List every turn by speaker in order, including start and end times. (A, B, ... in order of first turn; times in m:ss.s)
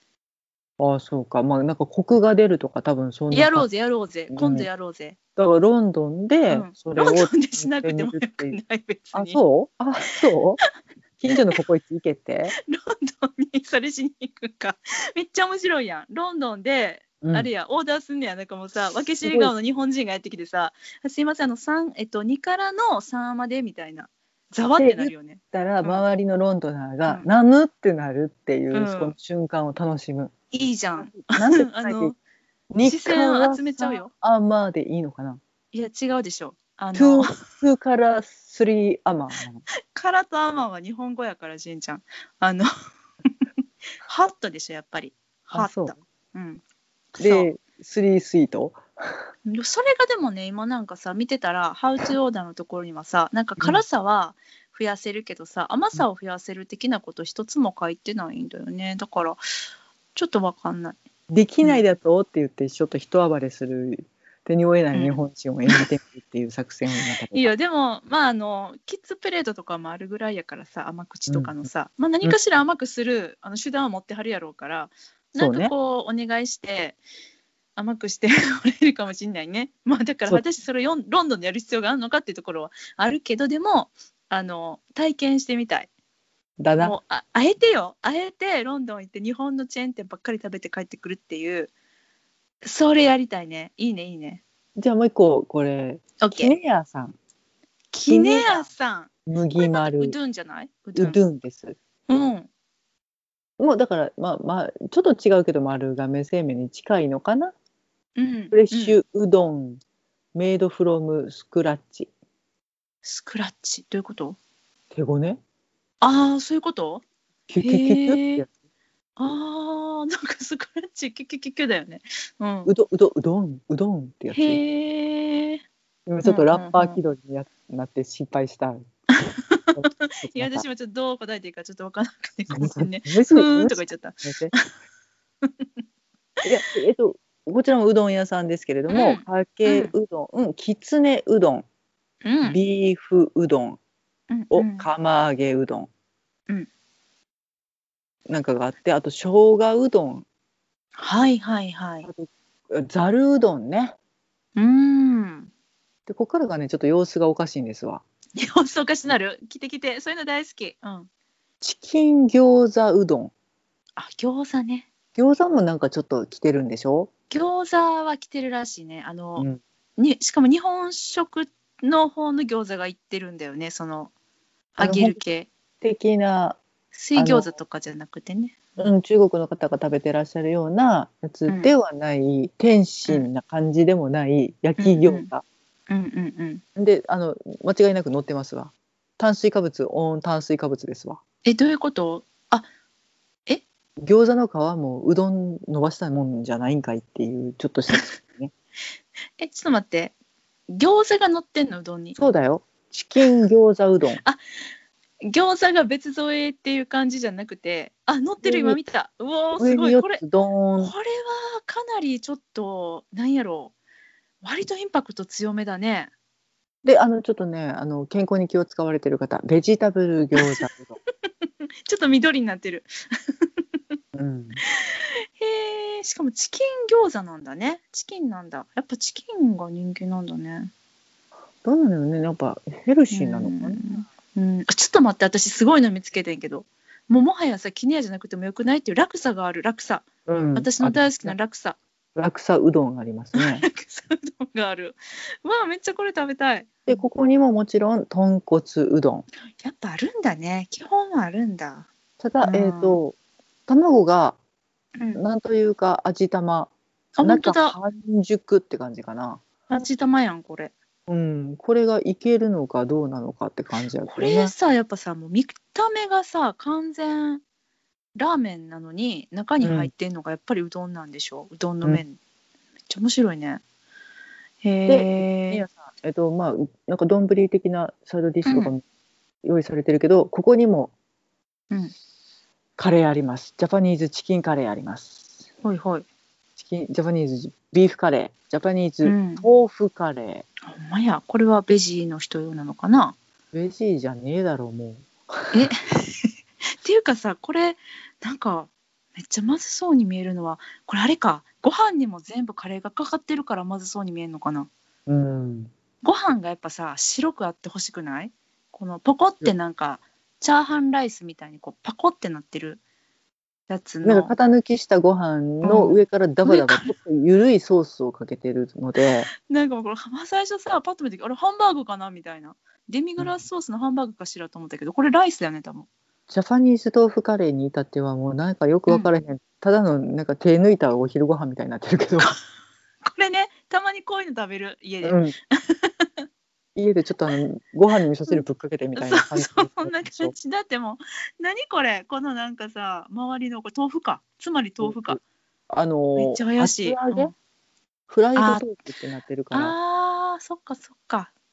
0:00.8-0:03.7 A
0:03.3-0:05.2 B
0:04.3-0:04.7 A
0:05.4-0:08.6 A
0:06.5-0:09.4 B
0:09.1-0:10.6 A
0:11.2-0:12.6 A
0:12.6-0:26.0 B
0:17.2-0:17.5 A
0:19.2-0:19.5 A
0:24.8-0:30.3 A
0:28.7-0:29.2 B
0:30.5-0:32.2 B
0:31.1-0:32.1 A
0:32.7-0:35.4 A
0:32.8-0:34.1 B
0:35.7-0:37.4 B
0:36.9-0:39.6 A
0:39.9-0:42.7 B
0:44.0-0:46.6 B
0:45.5-0:45.9 A
0:47.2-0:47.5 B
0:47.2-0:49.2 A
0:49.5-0:59.4 B
1:00.2-1:01.0 B
1:01.3-1:07.5 A
1:04.9-1:05.9 B
1:07.3-1:17.0 B
1:11.3-1:11.7 A
1:15.4-1:15.7 A
1:17.8-1:25.9 B
1:26.6-1:27.0 A
1:26.8-1:31.7 B
1:32.6-1:34.4 B
1:34.8-1:37.2 A
1:36.2-1:36.6 B
1:37.9-1:41.2 B
1:38.1-1:38.7 A
1:39.3-1:40.2 A
1:41.0-1:41.8 A
1:42.1-1:42.5 B
1:43.6-1:47.5 A
1:48.2-1:49.0 B
1:48.5-1:49.8 A
1:50.3-1:52.1 A
1:53.0-1:54.4 B
1:54.9-1:55.4 A
1:56.0-1:57.0 B
1:57.5-1:58.5 A
1:57.6-1:58.4 B
1:59.2-2:02.7 B
2:02.7-2:04.6 A
2:04.3-2:05.6 B
2:06.1-2:08.8 A
2:06.2-2:07.0 B
2:09.1-2:14.6 B
2:09.7-2:10.6 A
2:12.5-2:14.5 A
2:16.4-2:21.6 A
2:18.9-2:19.9 B
2:22.2-2:22.6 B
2:22.4-2:23.8 A
2:24.3-2:24.9 B
2:24.5-2:25.9 A
2:28.3-2:30.2 A
2:31.0-2:32.1 B
2:32.0-2:34.0 A
2:34.6-2:35.5 B
2:36.1-2:38.0 A
2:38.4-2:41.1 B
2:41.6-2:43.3 A
2:44.0-2:44.9 B
2:45.2-2:47.1 A
2:47.3-2:54.1 B
2:54.8-2:55.5 B
2:54.8-2:55.2 A
2:55.8-2:56.6 A
2:56.9-2:58.8 B
2:57.2-2:57.5 A
2:58.8-3:05.4 A
3:01.5-3:01.7 B
3:04.8-3:05.3 B
3:05.9-3:06.6 B
3:06.8-3:11.2 A
3:11.4-3:12.7 B
3:14.0-3:18.5 A
3:19.4-3:20.1 B
3:20.7-3:22.2 B
3:22.2-3:24.2 A
3:25.3-3:30.2 B
3:28.4-3:28.8 A
3:29.6-3:30.9 A
3:30.8-3:33.7 B
3:34.4-3:36.1 B
3:36.8-3:41.0 A
3:40.4-3:40.7 B
3:41.9-3:43.5 B
3:44.1-3:44.6 A
3:44.6-3:50.7 B
3:51.6-3:53.8 A
3:53.1-4:01.8 B
4:00.3-4:01.4 A
4:02.2-4:03.6 A
4:03.4-4:07.0 B
4:06.9-4:09.3 A
4:09.6-4:11.9 B
4:12.2-4:13.2 A
4:12.4-4:13.0 B
4:13.7-4:14.4 A
4:15.2-4:19.4 A
4:17.2-4:17.8 B
4:19.7-4:20.7 B
4:21.1-4:24.5 A
4:24.0-4:27.4 B
4:28.2-4:32.2 B
4:29.6-4:29.9 A
4:32.9-4:33.6 B
4:34.6-4:35.6 B
4:34.9-4:38.8 A
4:38.4-4:38.7 B
4:39.4-4:40.9 A
4:42.8-4:45.3 A
4:45.6-4:46.0 B
4:46.6-4:50.4 A
4:49.0-4:49.5 B
4:50.7-4:53.2 B
4:53.5-4:55.7 A
4:55.5-4:56.3 B
4:56.8-5:04.7 B
5:05.1-5:05.7 A
5:06.0-5:12.8 B
5:13.7-5:14.4 B
5:14.0-5:19.3 A
5:15.6-5:16.9 B
5:19.4-5:25.9 B
5:23.2-5:23.4 A
5:26.3-5:32.3 A
5:28.9-5:29.1 B
5:33.0-5:36.1 B
5:35.0-5:35.3 A
5:36.8-5:40.3 A
5:39.0-5:45.2 B
5:44.8-5:45.2 A
5:45.7-5:47.3 A
5:46.2-5:47.3 B
5:48.1-5:49.8 A
5:48.4-5:48.6 B
5:49.5-5:51.3 B